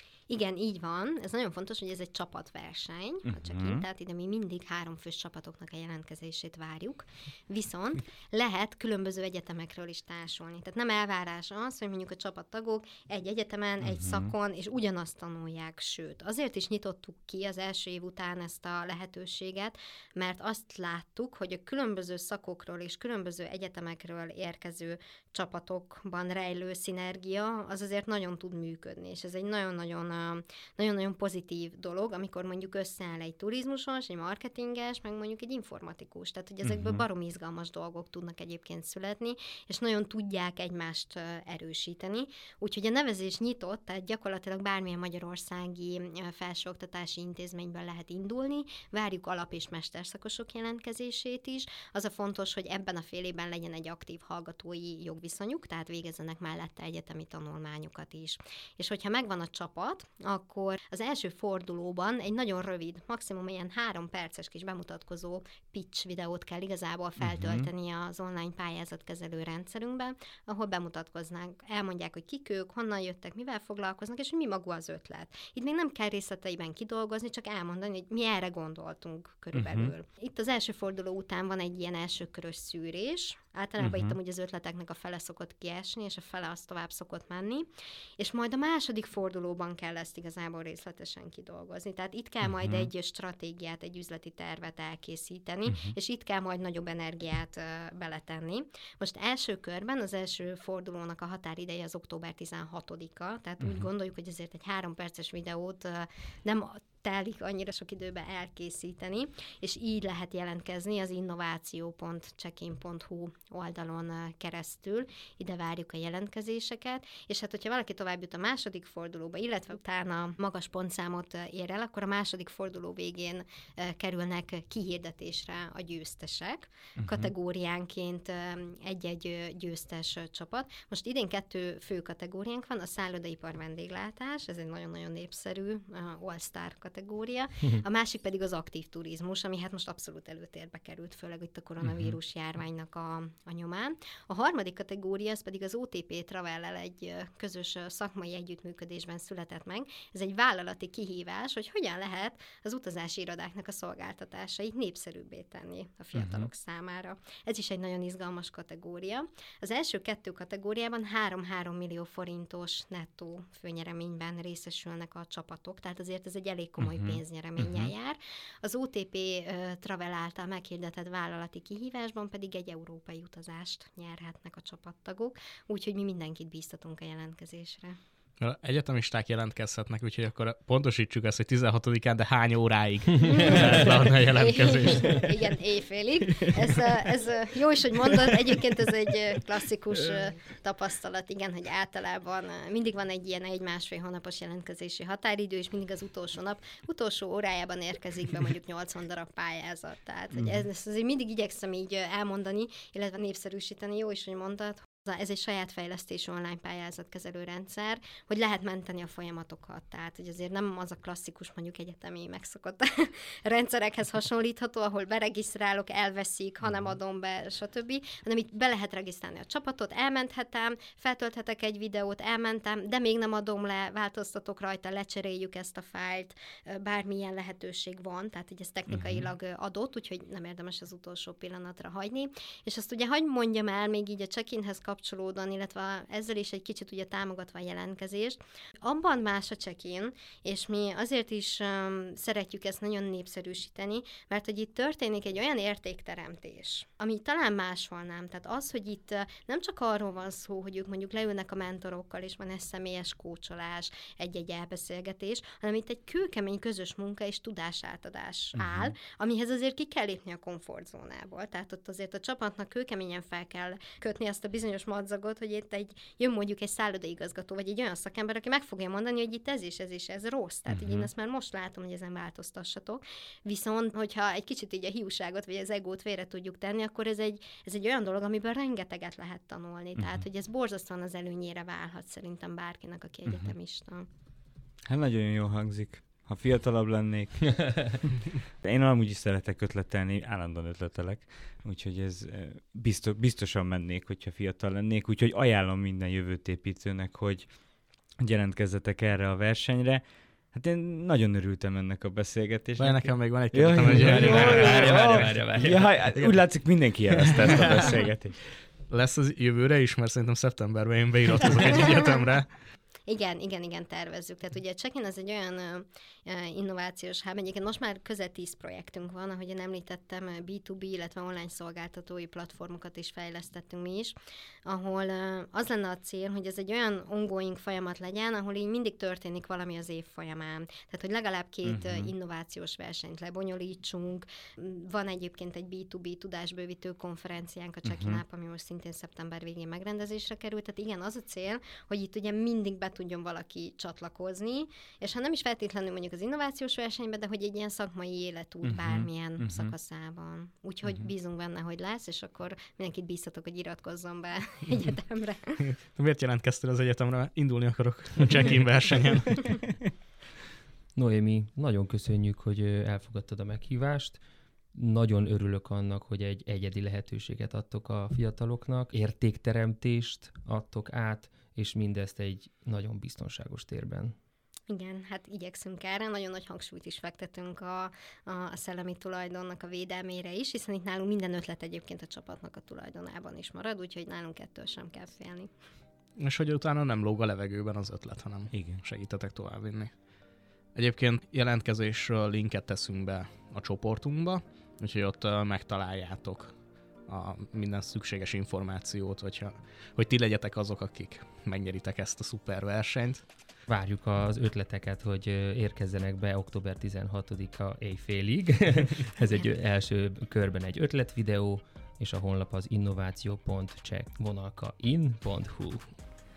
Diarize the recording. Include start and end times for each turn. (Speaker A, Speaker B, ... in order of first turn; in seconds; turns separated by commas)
Speaker A: 0.3-87.7, Speaker B: 3.2-3.8, Speaker B: 13.8-14.3, Speaker B: 36.6-37.0, Speaker B: 67.2-67.7, Speaker B: 79.5-79.9, Speaker B: 83.8-84.1, Speaker A: 88.2-178.0, Speaker B: 92.4-92.9, Speaker B: 95.7-95.9, Speaker B: 103.6-103.9, Speaker B: 127.0-127.3, Speaker B: 141.8-142.1, Speaker B: 156.1-156.5, Speaker B: 166.8-167.9, Speaker C: 178.4-185.3, Speaker A: 183.3-284.1, Speaker B: 200.3-200.6, Speaker B: 228.9-229.2, Speaker B: 258.6-258.9, Speaker B: 270.7-271.1, Speaker B: 280.0-280.2, Speaker B: 283.3-283.5, Speaker B: 284.8-308.6, Speaker C: 302.8-305.3, Speaker D: 304.0-306.1, Speaker C: 307.3-307.9, Speaker C: 308.9-312.7, Speaker A: 313.1-355.6, Speaker B: 331.6-332.1, Speaker B: 337.8-338.2, Speaker B: 348.6-349.7, Speaker B: 350.8-351.1, Speaker C: 355.8-359.8, Speaker D: 360.9-364.2, Speaker D: 364.7-374.1, Speaker A: 374.7-385.5, Speaker C: 386.2-403.3, Speaker B: 388.5-388.8, Speaker D: 403.7-416.1